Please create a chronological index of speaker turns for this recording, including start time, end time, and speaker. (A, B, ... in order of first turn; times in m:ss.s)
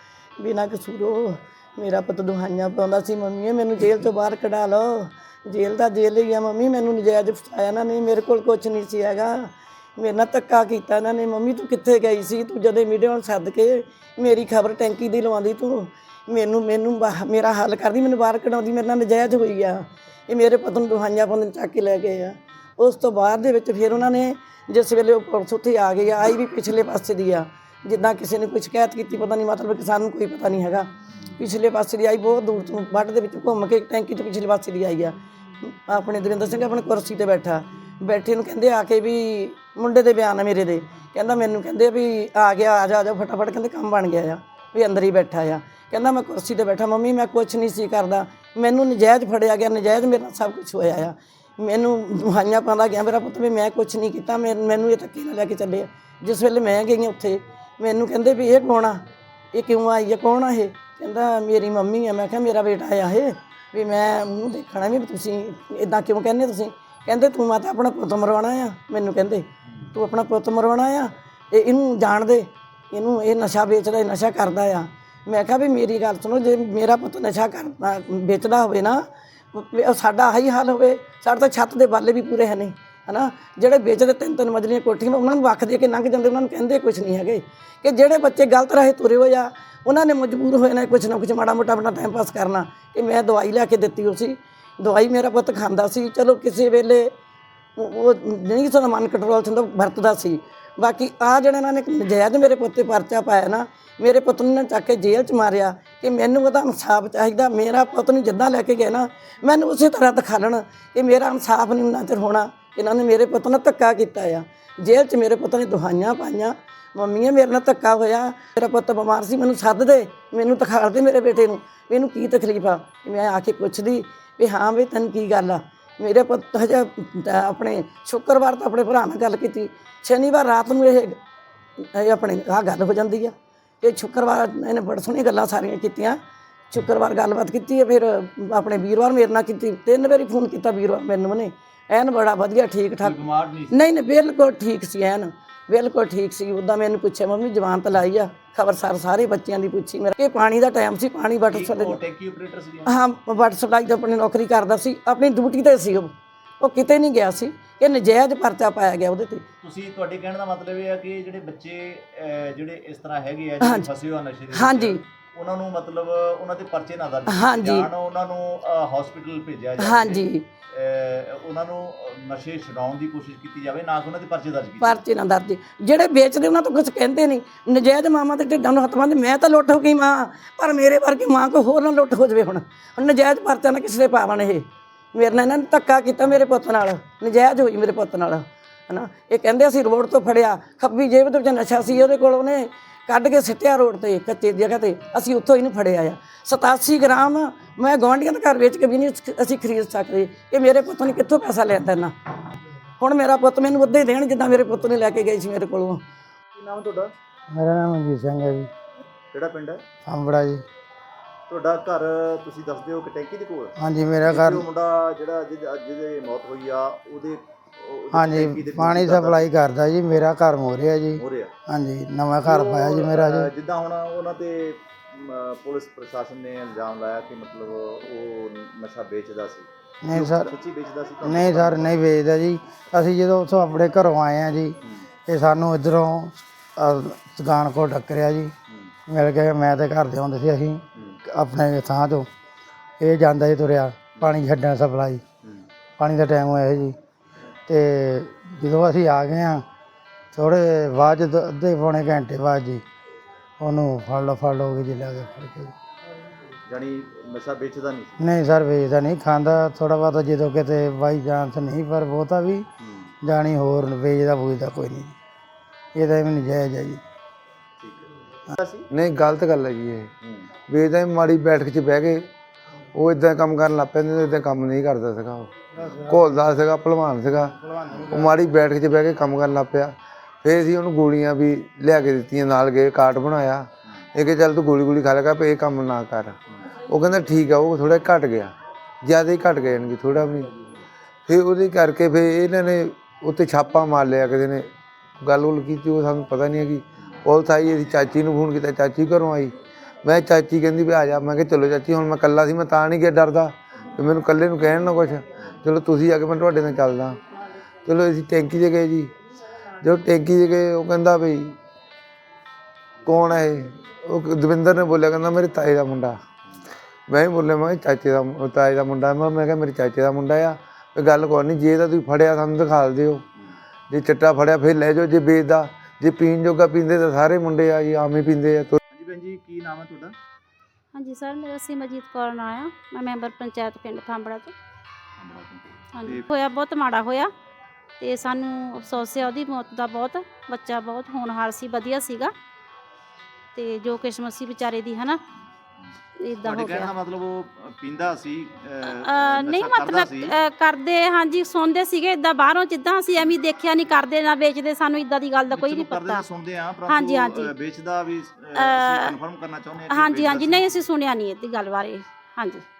0:00.4-0:59.0 A
0:59.5-1:37.1 A
1:37.8-2:11.2 A
2:11.8-2:16.2 A
2:16.7-2:23.2 A
2:23.0-2:23.8 B
2:23.7-2:32.0 A
2:31.5-2:33.0 B
2:32.8-2:39.4 A
2:39.6-2:55.0 B
2:43.6-2:43.9 A
2:44.5-2:45.0 A
2:47.3-2:47.9 A
2:49.8-2:50.4 A
2:54.8-3:22.1 A
3:23.0-3:26.0 A
3:26.5-3:27.1 B
3:27.5-3:28.7 C
3:29.3-3:29.8 B
3:30.0-3:30.6 C
3:31.5-3:39.5 B
3:33.8-3:34.6 C
3:38.1-3:43.5 C
3:41.2-3:41.5 B
3:42.4-3:52.0 B
3:50.0-3:50.5 C
3:51.2-3:54.8 C
3:55.3-3:58.5 C
3:59.1-4:02.3 C
4:03.0-4:05.2 C
4:06.0-4:07.0 C
4:07.7-4:09.6 C
4:10.3-4:12.8 C
4:13.6-4:15.7 C
4:16.7-4:18.2 B
4:18.2-4:22.7 C
4:22.8-4:23.1 B
4:23.2-4:25.2 C
4:25.9-4:27.0 C
4:27.8-4:28.9 B
4:28.9-4:30.1 D
4:30.2-4:30.5 B
4:30.7-4:32.3 D
4:32.9-4:46.4 D
4:35.8-4:36.1 C
4:37.6-4:38.3 C
4:46.9-4:50.5 D
4:51.3-4:54.7 D
4:55.2-4:59.5 D
5:00.0-5:07.2 D
5:07.8-5:09.1 D
5:09.8-5:11.6 D
5:13.0-5:16.2 D
5:17.1-5:23.2 D
5:23.9-5:28.8 D
5:28.9-5:30.1 B
5:30.9-5:34.5 E
5:35.2-5:36.2 B
5:35.9-5:37.3 E
5:38.0-5:42.3 E
5:43.5-5:45.2 E
5:46.2-5:46.9 E
5:46.4-5:50.3 B
5:48.8-5:56.2 E
5:55.5-6:00.7 B
5:56.9-5:57.5 E
5:58.5-5:59.2 E
5:59.9-6:02.6 E